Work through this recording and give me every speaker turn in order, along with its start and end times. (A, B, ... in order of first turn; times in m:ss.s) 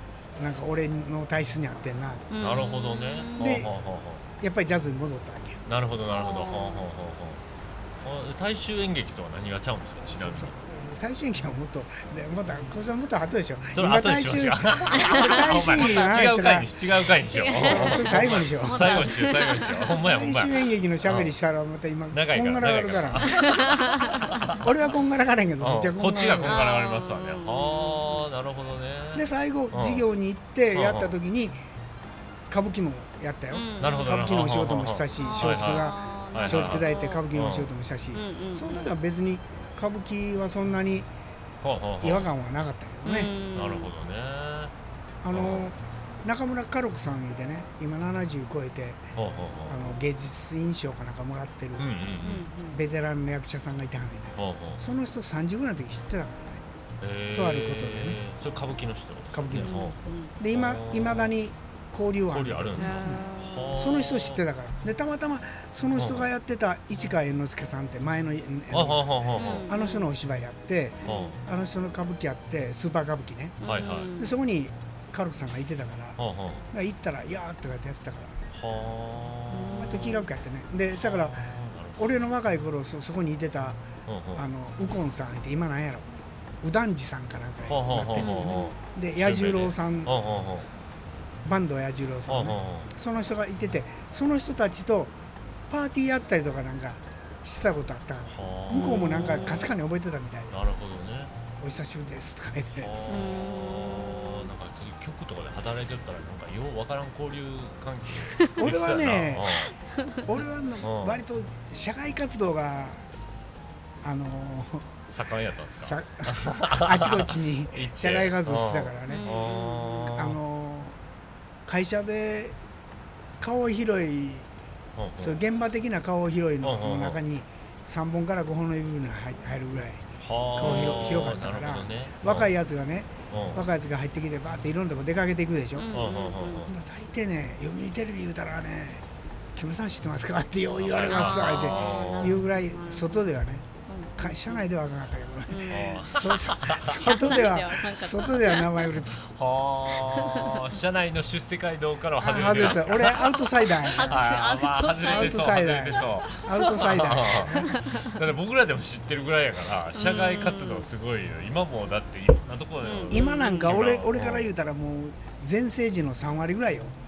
0:00.4-0:02.3 A
0:02.3-0:03.6 B
0:02.4-0:04.3 C
0:03.4-0:03.7 A
0:04.4-0:05.6 A
0:05.7-0:07.4 C
0:06.1-0:06.9 B
0:08.0-0:10.5 C
0:10.2-0:16.7 A
0:13.8-0:21.4 C
0:14.9-0:16.1 B
0:17.3-0:20.0 B
0:17.6-0:19.2 A
0:20.0-0:23.4 A
0:22.1-0:24.7 C
0:23.3-0:24.6 B
0:24.6-0:26.6 A
0:25.6-0:30.1 C
0:26.4-0:28.3 B
0:29.2-0:31.6 A
0:30.7-0:31.2 C
0:32.5-0:41.1 A
0:33.5-0:34.2 B
0:33.8-0:37.7 C
0:35.2-0:37.3 B
0:38.1-0:38.9 B
0:41.6-0:42.3 C
0:42.0-0:43.3 A
0:43.0-0:43.9 B
0:43.5-0:44.7 C
0:45.2-0:49.0 A
0:45.3-0:45.7 C
0:49.2-0:49.8 C
0:49.7-0:56.6 A
0:51.8-0:52.5 C
0:52.2-0:52.8 B
0:54.4-0:54.8 C
0:57.0-1:00.0 C
0:57.3-0:58.2 A
0:59.3-0:59.8 A
0:59.6-1:00.3 B
1:00.4-1:03.3 A
1:00.5-1:01.4 C
1:02.3-1:04.4 C
1:02.8-1:03.9 B
1:03.8-1:13.6 A
1:06.0-1:06.3 C
1:08.7-1:09.7 C
1:09.4-1:10.1 B
1:11.0-1:11.4 B
1:11.0-1:11.4 C
1:13.6-1:14.4 B
1:13.6-1:14.1 C
1:14.2-1:16.2 A
1:16.2-1:16.7 C
1:16.7-1:18.4 A
1:18.5-1:20.2 C
1:19.5-1:20.2 B
1:19.7-1:23.8 A
1:20.9-1:22.2 C
1:24.1-1:24.5 C
1:24.3-1:26.1 A
1:26.6-1:30.1 A
1:27.7-1:30.7 C
1:28.2-1:28.7 B
1:31.4-1:35.1 A
1:32.3-1:32.9 C
1:35.7-1:40.6 A
1:38.3-1:39.7 C
1:38.7-1:39.7 B
1:40.5-1:41.3 C
1:41.6-1:42.9 A
1:42.8-1:49.7 C
1:43.1-1:44.5 B
1:48.6-1:49.5 A
1:50.3-1:53.0 A
1:50.8-1:51.2 C
1:54.0-1:55.0 A
1:55.1-2:00.4 C
1:55.8-1:59.3 A
1:59.1-2:00.2 B
2:00.1-2:01.0 A
2:01.7-2:02.6 A
2:03.4-2:04.5 A
2:05.0-2:05.4 C
2:05.2-2:15.9 A
2:06.6-2:07.2 C
2:10.2-2:12.5 C
2:10.6-2:11.1 B
2:13.3-2:13.7 C
2:15.8-2:16.7 B
2:15.9-2:16.7 C
2:16.7-2:19.0 A
2:19.6-2:23.6 A
2:20.8-2:22.4 C
2:21.0-2:23.3 B
2:23.9-2:24.7 B
2:24.2-2:29.1 A
2:25.5-2:26.1 B
2:25.7-2:27.2 C
2:26.8-2:29.0 B
2:29.1-2:44.5 C
2:30.0-2:30.8 B
2:32.2-2:34.3 A
2:32.5-2:35.6 B
2:35.1-2:37.8 A
2:36.6-2:38.2 B
2:39.9-2:40.9 B
2:42.8-2:43.8 B
2:43.1-2:47.0 A